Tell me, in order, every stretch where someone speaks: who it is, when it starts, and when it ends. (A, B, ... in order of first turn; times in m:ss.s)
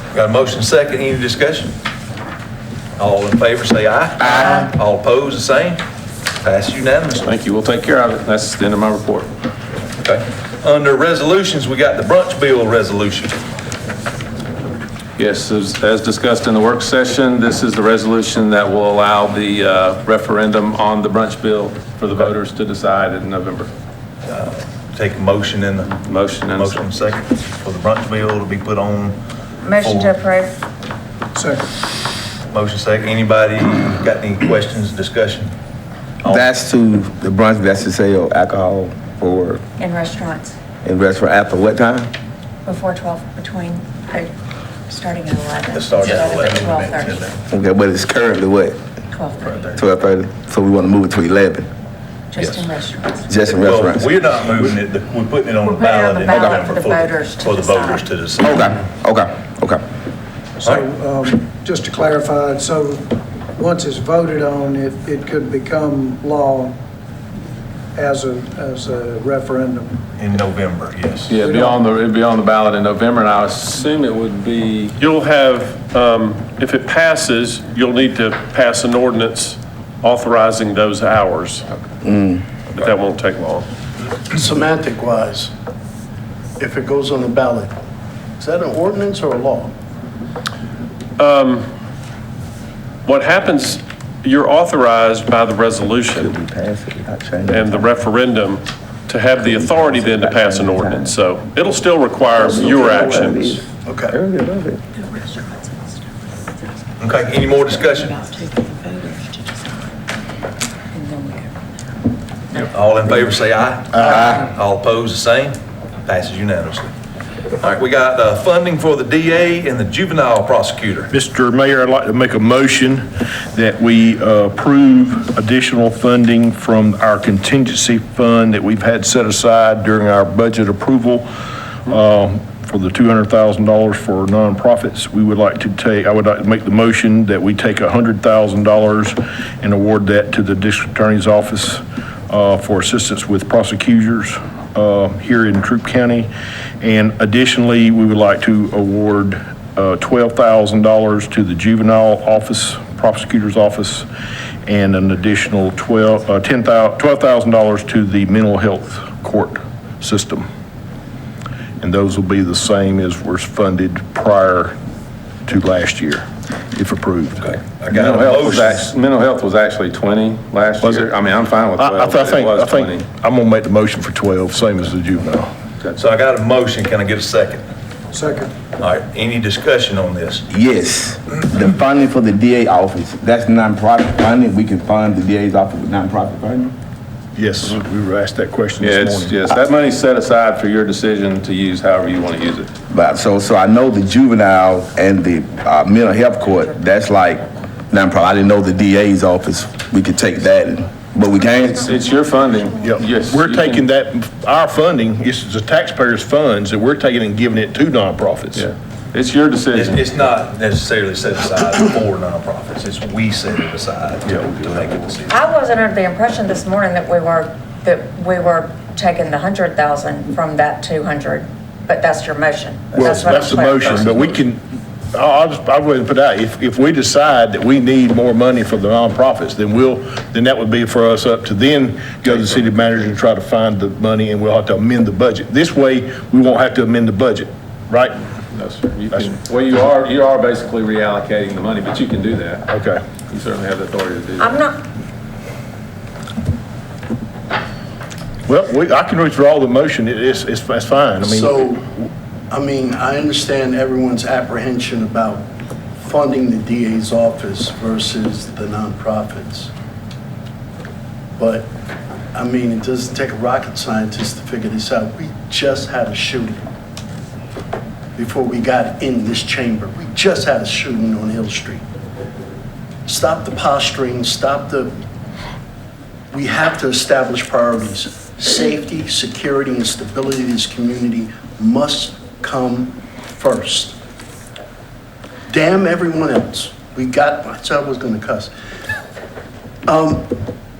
0:00.1-0:01.7 A
0:03.0-0:05.8 A
0:06.4-0:07.3 A
0:07.2-0:09.3 B
0:10.0-0:13.4 A
0:15.2-0:23.7 B
0:24.3-0:25.9 A
0:26.0-0:26.9 B
0:26.5-0:29.2 A
0:29.6-0:30.6 C
0:29.7-0:30.2 A
0:31.3-0:31.7 D
0:32.5-0:35.5 A
0:36.2-0:39.6 E
0:39.8-0:40.6 C
0:40.8-0:42.1 E
0:42.6-0:44.3 C
0:44.9-0:47.2 C
0:45.7-0:47.2 A
0:47.5-0:48.8 E
0:49.1-0:49.8 C
0:49.8-0:51.7 E
0:52.3-0:53.3 C
0:52.4-0:52.7 A
0:53.3-0:54.1 E
0:53.6-0:58.8 A
0:55.6-0:58.0 C
0:56.3-0:56.6 E
0:58.4-0:59.8 E
1:00.6-1:06.8 D
1:07.9-1:10.0 D
1:10.2-1:11.4 A
1:11.3-1:14.9 B
1:11.4-1:11.8 D
1:15.0-1:21.7 F
1:22.0-1:22.4 E
1:22.7-1:23.7 F
1:24.2-1:25.5 G
1:26.6-1:27.8 G
1:28.4-1:29.7 G
1:31.2-1:31.7 F
1:33.0-1:36.3 F
1:36.1-1:38.0 E
1:37.4-1:43.5 F
1:39.3-1:41.2 E
1:42.3-1:44.8 E
1:43.8-1:44.1 G
1:45.0-1:49.8 C
1:47.0-1:48.2 A
1:50.9-1:51.6 C
1:52.7-1:56.9 A
1:53.9-1:54.3 H
1:57.6-2:01.1 A
2:01.1-2:11.3 H
2:11.8-2:26.3 H
2:26.8-2:34.1 H
2:34.6-2:40.5 H
2:41.8-2:44.7 H
2:45.4-2:47.6 H
2:47.4-2:48.9 A
2:47.9-2:53.0 B
2:50.8-2:51.1 H
2:51.8-2:55.5 H
2:56.0-2:57.6 A
2:58.1-2:58.5 D
2:58.8-3:00.4 A
3:00.5-3:06.7 E
3:07.3-3:09.4 H
3:08.8-3:12.7 B
3:12.9-3:22.0 E
3:21.8-3:23.8 B
3:22.8-3:28.7 H
3:28.5-3:30.2 B
3:29.7-3:35.4 A
3:35.3-3:44.4 C
3:42.9-3:58.2 H
3:52.2-3:52.7 B
3:58.5-4:02.7 B
4:02.7-4:03.0 H
4:03.3-4:04.6 B
4:04.4-4:04.8 C
4:08.5-4:11.6 H
4:11.2-4:11.9 G
4:12.5-4:19.7 G
4:21.4-4:21.7 G
4:22.3-4:26.6 G
4:28.2-4:31.8 G
4:33.0-4:34.9 G
4:36.3-4:44.0 G
4:45.5-4:48.5 G
4:49.8-4:50.3 G